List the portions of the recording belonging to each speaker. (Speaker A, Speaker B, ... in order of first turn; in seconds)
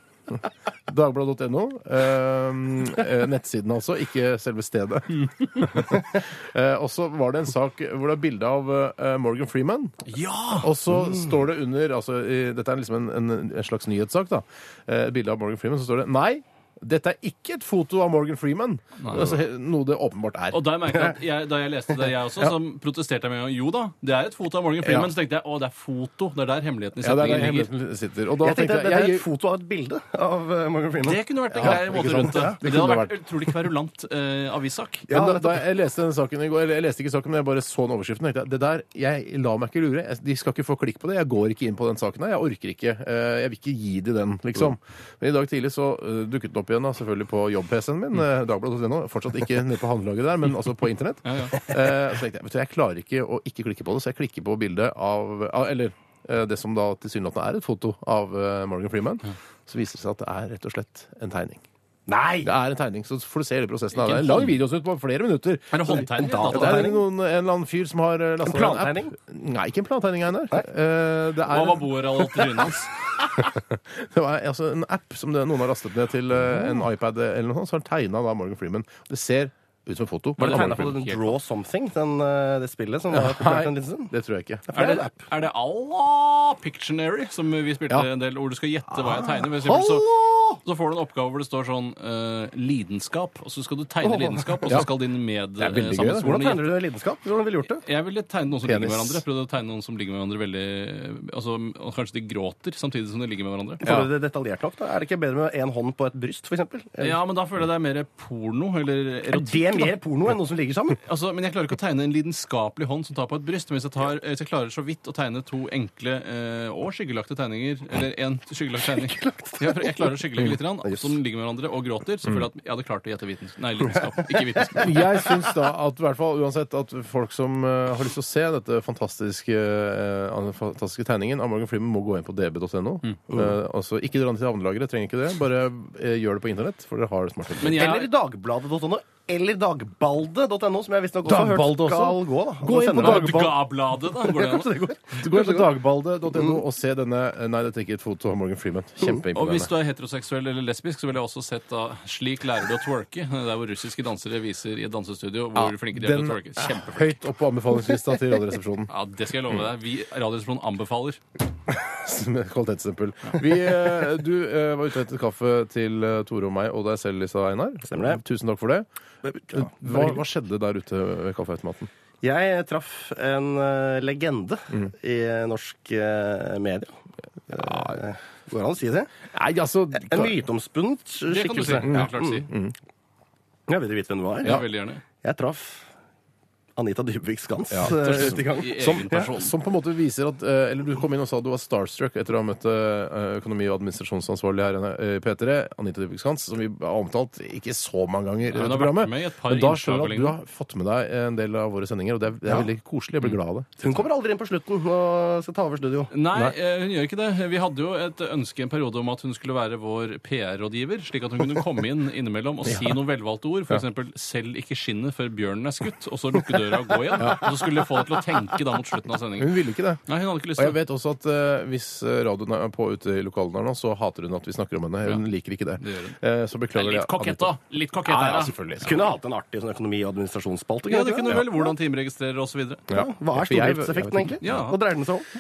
Speaker A: 0.9-20.8, 24.8-25.1, 27.0-29.2, 31.5-33.2, 35.1-61.6, 62.4-71.9, 73.3-81.0, 83.1-84.7, 89.0-90.6, 95.6-96.5, 98.6-99.2, 103.8-104.1, 124.8-137.9, 141.2-143.6, 145.2-149.7, 155.6-158.9, 161.7-168.9, 169.5-171.9, 177.5-177.9, 179.3-180.4, 181.8-182.8, 187.7-204.0, 212.7-213.0, 217.2-217.5, 219.4-220.0, 220.6-227.5, 228.1-229.0, 232.9-234.4
Speaker B: 5.3-5.7, 10.1-10.7, 19.0-19.4, 20.5-27.7, 31.0-35.1, 51.3-51.7, 64.0-64.5, 65.7-66.9, 71.5-72.9, 80.4-81.3, 84.7-90.1, 90.6-96.7, 97.8-103.8, 107.0-109.9, 111.0-125.0, 137.6-138.1, 142.9-144.7, 149.3-157.2, 158.9-161.2, 181.3-182.5, 184.4-185.0, 187.9-189.6, 198.5-200.4, 206.1-220.8, 225.8-226.2, 226.7-228.6, 230.9-232.9, 234.4-234.8
Speaker C: 28.4-32.6, 35.1-35.6, 62.1-62.5, 66.0-67.0, 68.4-69.2, 80.4-84.1, 84.7-85.3, 94.0-94.8, 96.2-97.8, 103.8-107.2, 109.3-111.0, 118.9-120.2, 120.8-121.1, 124.2-125.3, 137.7-145.8, 167.9-168.2, 169.2-170.2, 172.2-177.0, 177.5-179.1, 179.9-182.4, 183.7-184.6, 185.2-185.9, 186.8-189.3, 203.8-206.1, 228.8-231.7, 232.9-235.3